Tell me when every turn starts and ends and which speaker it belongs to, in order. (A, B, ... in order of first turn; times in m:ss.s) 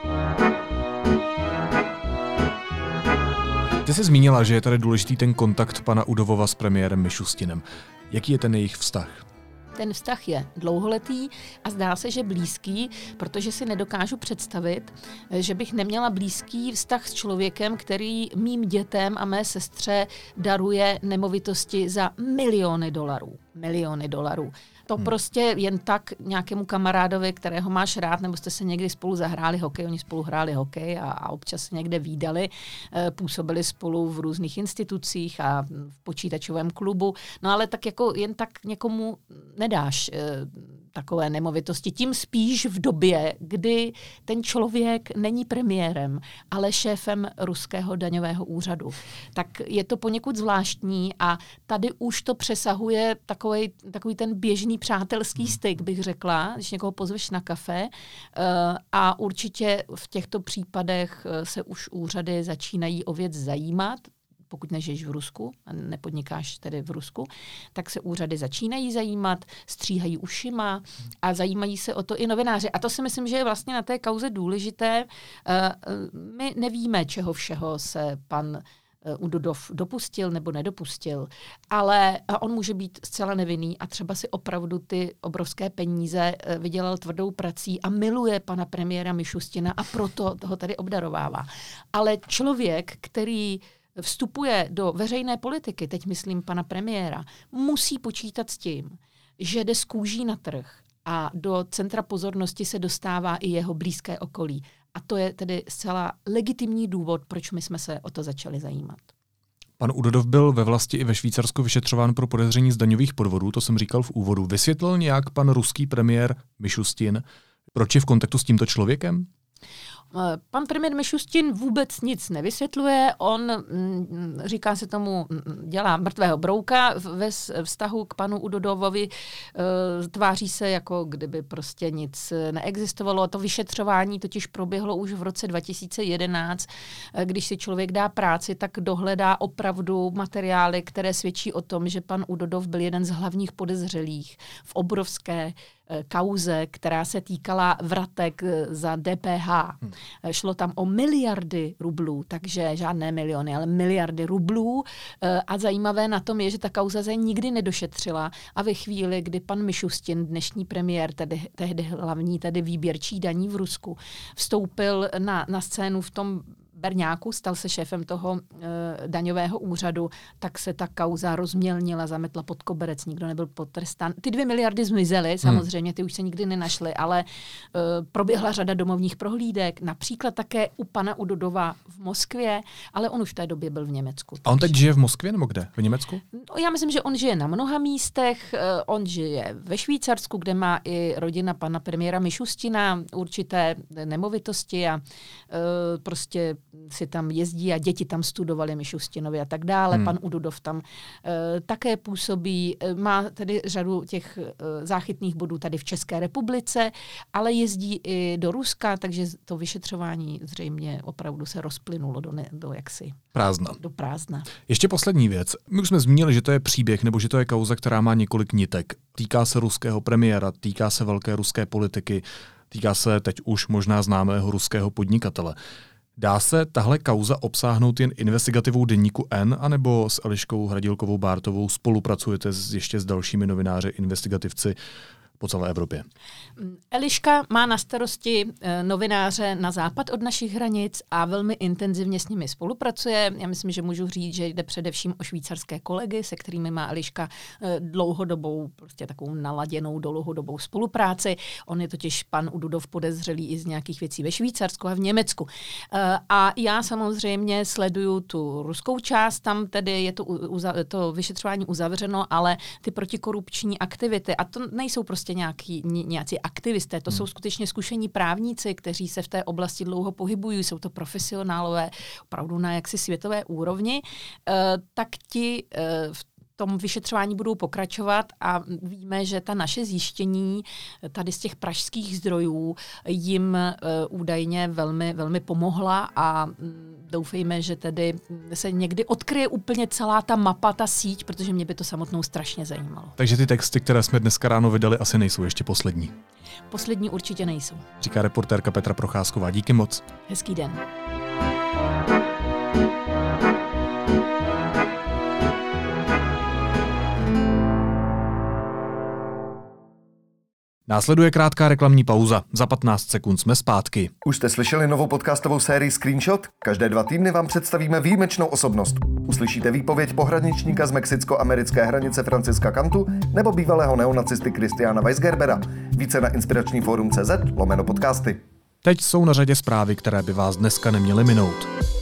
0:03.8-0:09.2 A
0:09.8-1:49.1 B
1:49.8-1:59.3 A
2:00.1-3:04.8 B
3:04.4-3:06.2 A
3:06.3-3:33.2 B
3:33.4-3:33.8 A
3:33.8-3:34.5 B
3:34.7-3:45.6 A
3:46.2-3:54.8 A
3:55.4-3:56.0 A
3:56.6-4:53.1 B
4:53.2-4:56.1 A
4:56.7-4:57.9 B
4:58.0-5:00.0 A
5:00.3-5:00.8 B
5:10.9-5:14.1 A
5:14.2-5:28.4 C
5:28.8-5:31.7 A